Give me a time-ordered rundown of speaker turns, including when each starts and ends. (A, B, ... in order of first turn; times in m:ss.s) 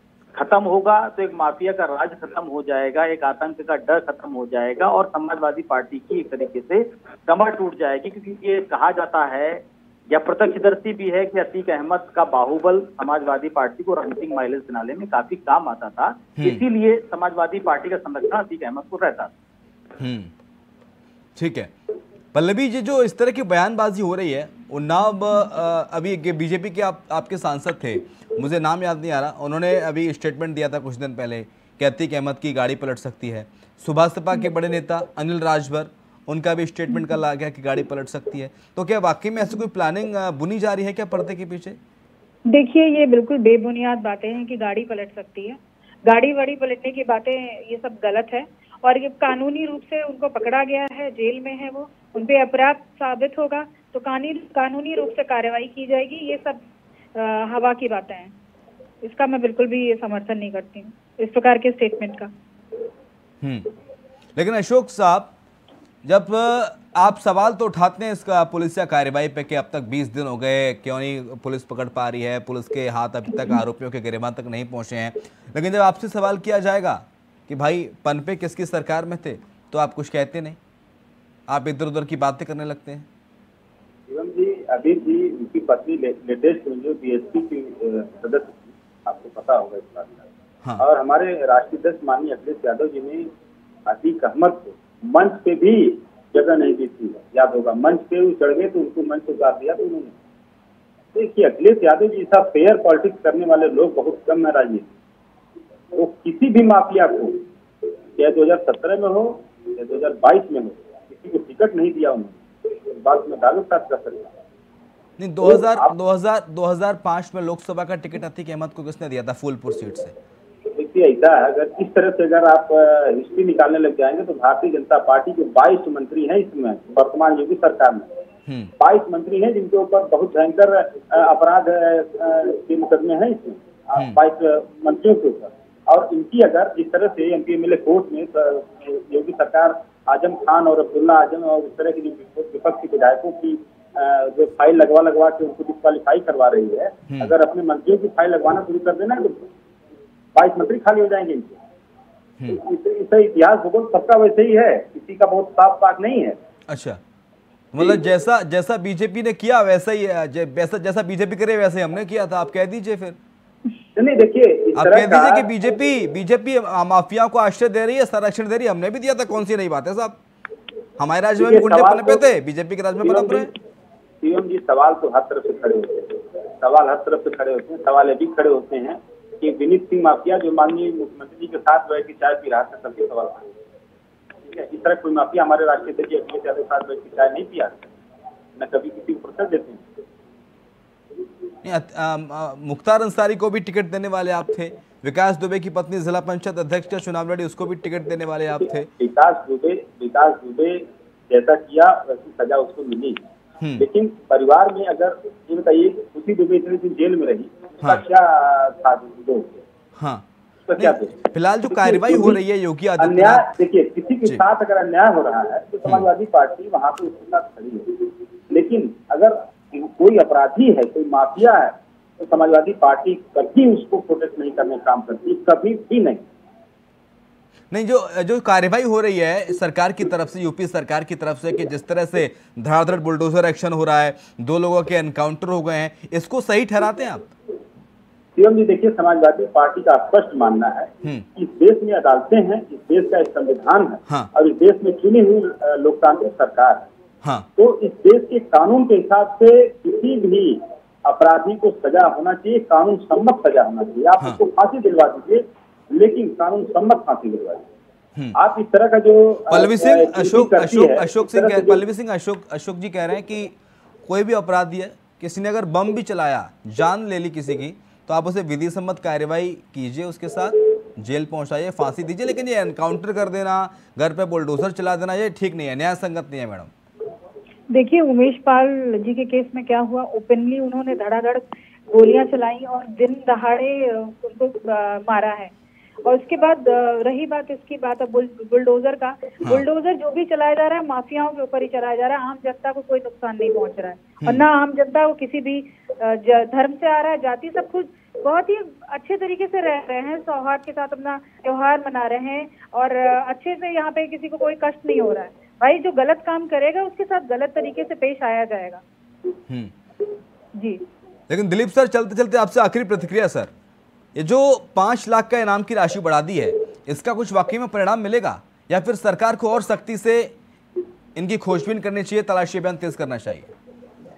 0:00.3-0:19.3 A
0:20.0-0:20.3 B
0:21.4-0:21.7 B
0:22.3-0:41.8 B
0:42.5-0:56.6 C
0:57.1-0:58.3 C
0:59.0-1:02.3 C
1:03.4-1:03.7 B
1:04.4-1:05.3 B
1:06.0-1:20.6 B
1:21.5-1:23.0 B
1:24.1-1:30.2 D
1:30.8-1:33.3 D
1:33.8-1:40.1 D
1:41.1-1:44.9 D
1:45.9-1:47.4 D
1:48.2-1:54.3 D
1:55.2-2:00.1 B
1:55.4-1:55.9 D
2:00.8-2:08.1 D
2:08.8-2:29.5 D
2:30.3-2:31.6 D
2:32.5-2:36.4 D
2:36.7-2:37.0 B
2:37.7-2:43.2 B
2:44.0-2:45.5 D
2:44.8-2:50.2 B
2:51.0-2:53.5 B
2:51.4-2:52.2 D
2:53.0-2:53.5 D
2:54.2-3:03.5 D
3:04.5-3:07.9 D
3:08.6-3:09.8 D
3:11.6-3:18.9 B
3:18.6-3:23.2 D
3:23.8-3:29.6 D
3:30.0-3:33.5 B
3:30.7-3:31.1 D
3:31.6-3:32.4 D
3:33.0-3:46.2 D
3:47.7-3:57.2 B
3:58.4-4:06.8 D
4:07.6-4:17.7 D
4:18.3-4:21.8 D
4:19.5-4:23.5 B
4:24.1-4:36.7 B
4:37.7-4:45.5 C
4:46.0-5:08.8 C
5:11.3-5:13.5 B
5:14.1-5:20.3 B
5:21.2-5:23.5 B